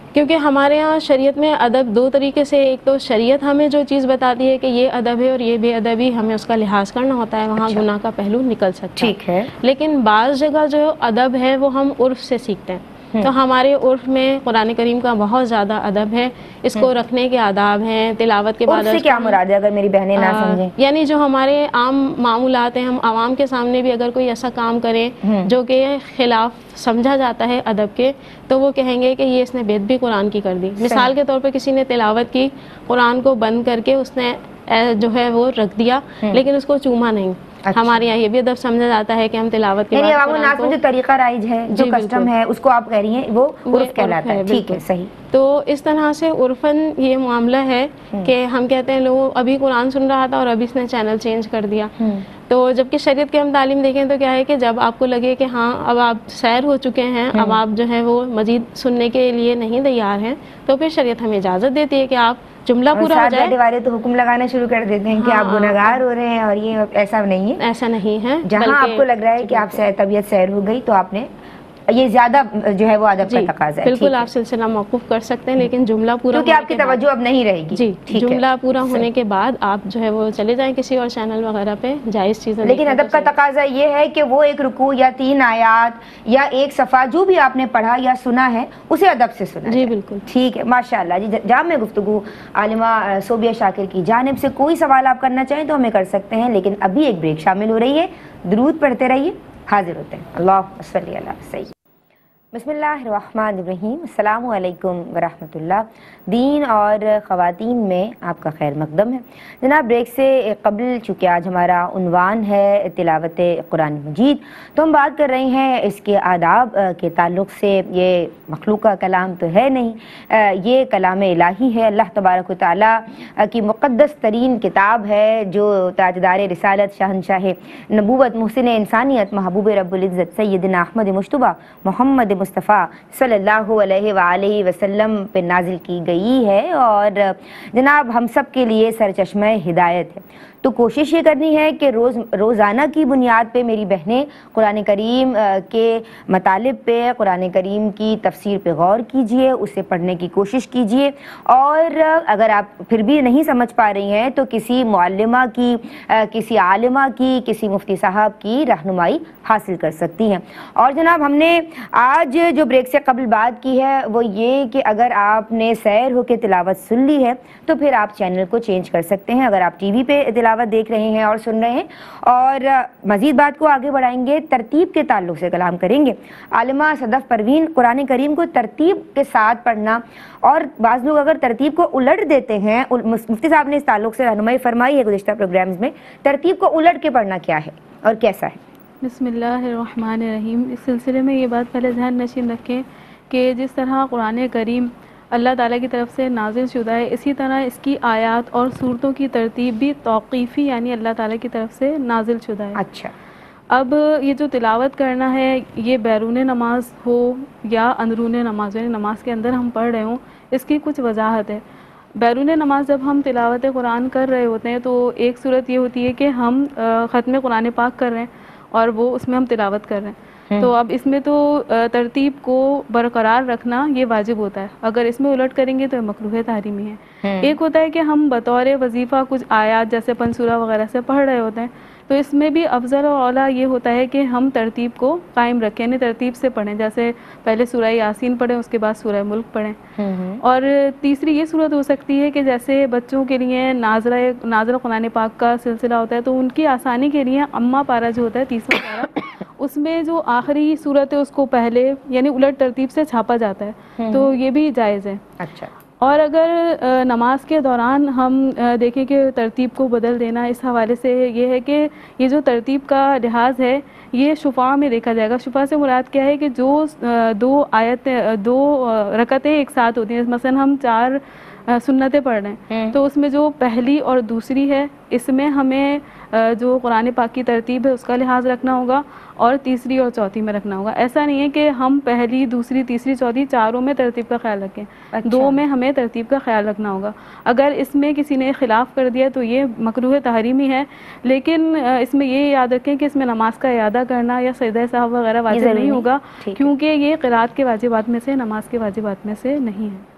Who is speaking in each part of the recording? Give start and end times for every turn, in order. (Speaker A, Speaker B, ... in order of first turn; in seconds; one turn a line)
Speaker A: 0.1-19.4
Speaker B: 7.6-7.8
Speaker B: 9.0-9.5
Speaker B: 18.7-20.7
Speaker A: 20.2-40.8
Speaker B: 25.2-25.5
Speaker B: 30.8-31.1
Speaker B: 37.6-38.0
Speaker B: 39.9-45.1
Speaker A: 41.7-42.3
Speaker A: 43.7-52.0
Speaker B: 52.0-52.2
Speaker A: 52.5-63.5
Speaker B: 57.3-57.6
Speaker B: 62.9-67.6
Speaker A: 65.1-65.9
Speaker A: 67.6-69.8
Speaker B: 68.4-71.3
Speaker B: 71.9-74.3
Speaker A: 73.2-77.0
Speaker B: 76.3-79.0
Speaker A: 77.7-83.3
Speaker B: 82.6-101.7
Speaker A: 89.7-90.2
Speaker B: 102.5-188.6
Speaker C: 189.0-202.8
Speaker B: 202.8-203.1
Speaker C: 203.7-211.6
Speaker C: 212.2-239.8
Speaker B: 227.2-227.6
Speaker B: 240.0-240.4
Speaker C: 240.4-255.2
Speaker B: 254.0-254.3
Speaker B: 255.4-255.7
Speaker C: 256.0-300.0
Speaker B: 272.7-273.0
Speaker B: 285.1-285.6
Speaker B: 295.5-296.7